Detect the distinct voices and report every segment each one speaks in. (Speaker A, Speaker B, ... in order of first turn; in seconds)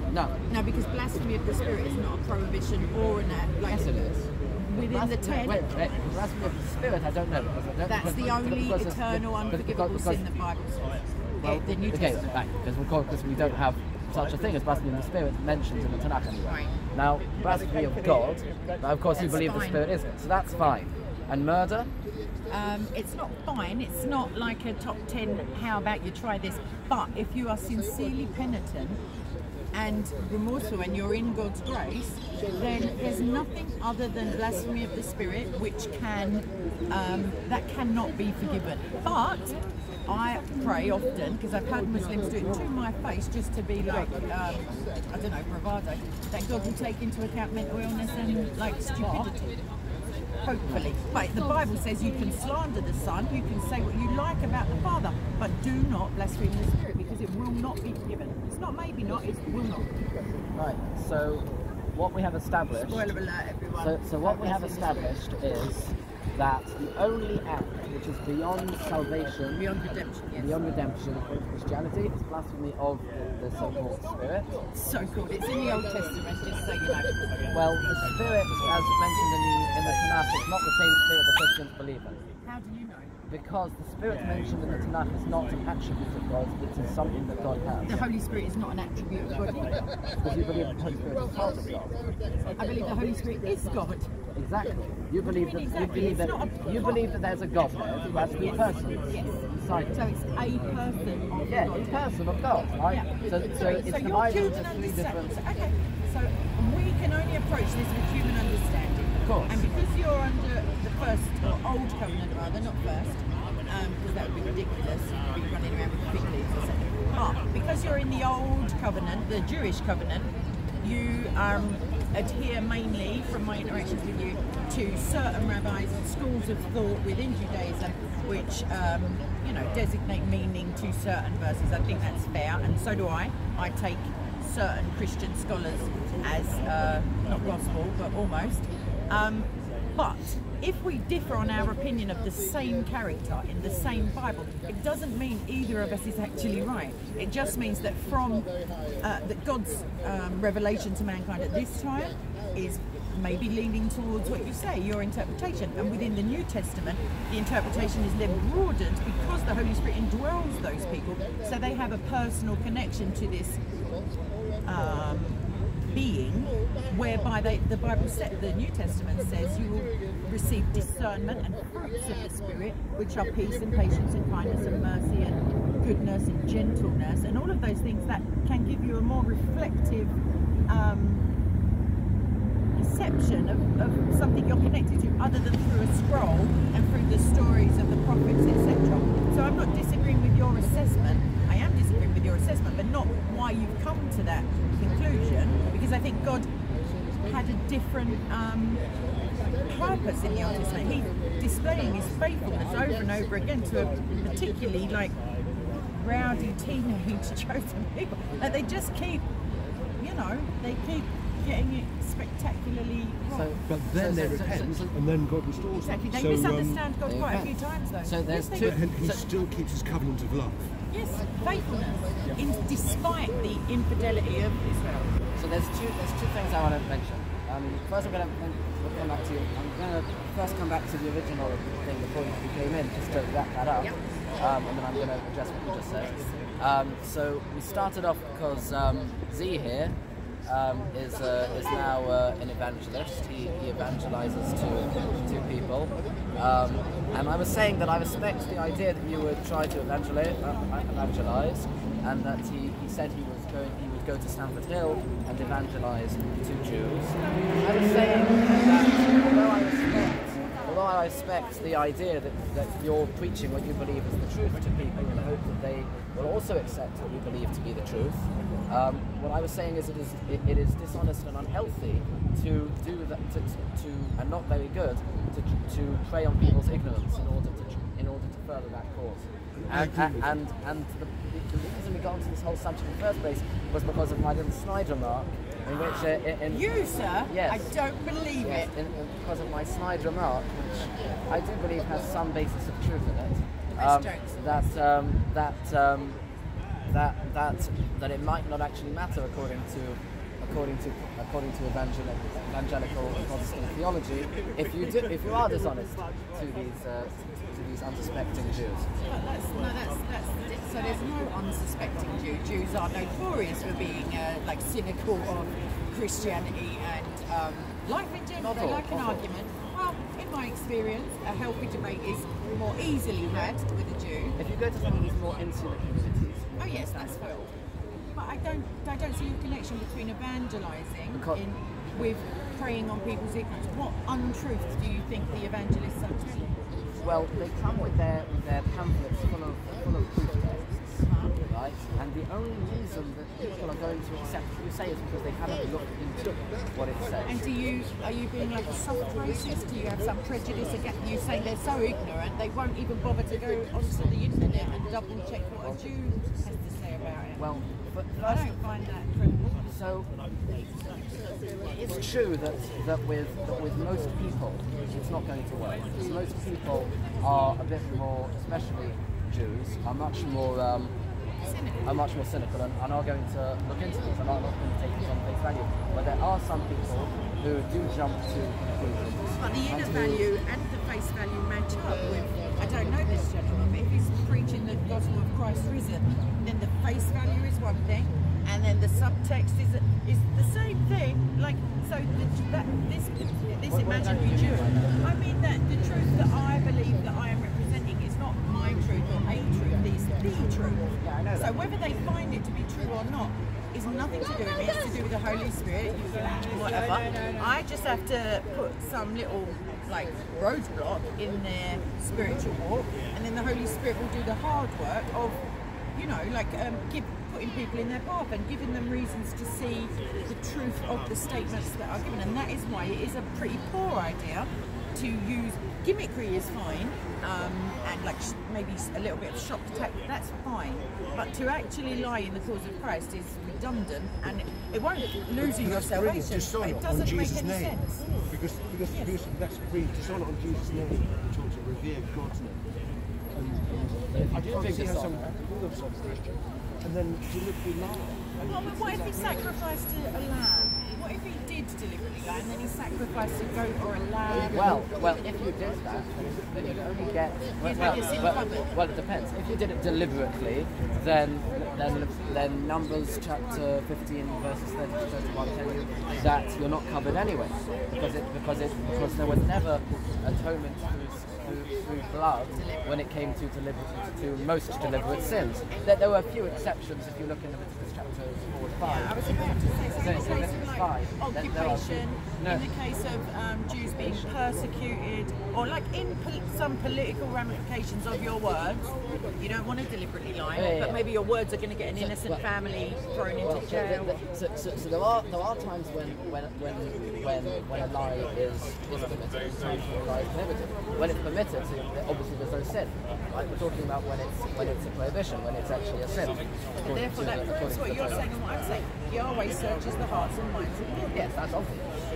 Speaker A: 0.1-0.4, 3.7-4.3, 4.8-10.3, 11.4-21.9, 49.0-49.3, 50.6-50.9, 60.5-63.1, 63.8-69.7, 70.3-74.6, 77.5-82.2, 83.3-88.1, 90.2-91.9, 94.3-100.0, 101.5-105.4, 109.2-109.6, 213.3-214.9, 217.1-219.2, 225.4-287.7, 288.4-296.2, 296.9-308.9, 318.4-319.3, 324.4-327.4, 331.1-331.4, 337.0-347.3, 357.4-358.6, 359.6-361.0, 361.7-370.9, 371.8-380.2, 393.7-395.1, 401.0-401.6, 444.1-445.3, 454.5-482.6, 483.7-484.3, 490.5-491.0, 491.9-492.4, 493.4-508.3, 511.1-511.9
Speaker B: 0.5-3.9, 4.6-5.7, 7.9-12.3, 16.5-16.7, 19.1-19.8, 22.5-29.0, 29.7-39.6, 40.1-49.5, 50.4-59.9, 62.8-65.2, 69.5-70.8, 74.7-77.2, 82.5-83.2, 87.8-89.8, 92.6-94.1, 95.2-97.0, 99.1-99.4, 99.9-102.0, 102.9-120.3, 120.8-148.5, 149.0-163.6, 164.7-180.1, 180.7-181.2, 182.8-196.5, 197.2-198.8, 199.7-205.2, 206.0-209.3, 210.0-213.5, 215.8-218.7, 220.9-225.2, 286.5-288.7, 293.7-294.6, 309.1-324.4, 326.6-327.5, 328.1-336.5, 341.0-341.4, 347.3-357.6, 358.2-359.6, 371.4-371.8, 379.3-415.4, 415.9-438.0, 438.9-439.2, 448.5-454.7, 457.6-458.7, 472.5-472.9, 478.8-494.2, 506.8-511.2
Speaker C: 213.7-216.8, 218.6-220.7, 279.6-280.3, 435.4-442.6, 443.3-449.5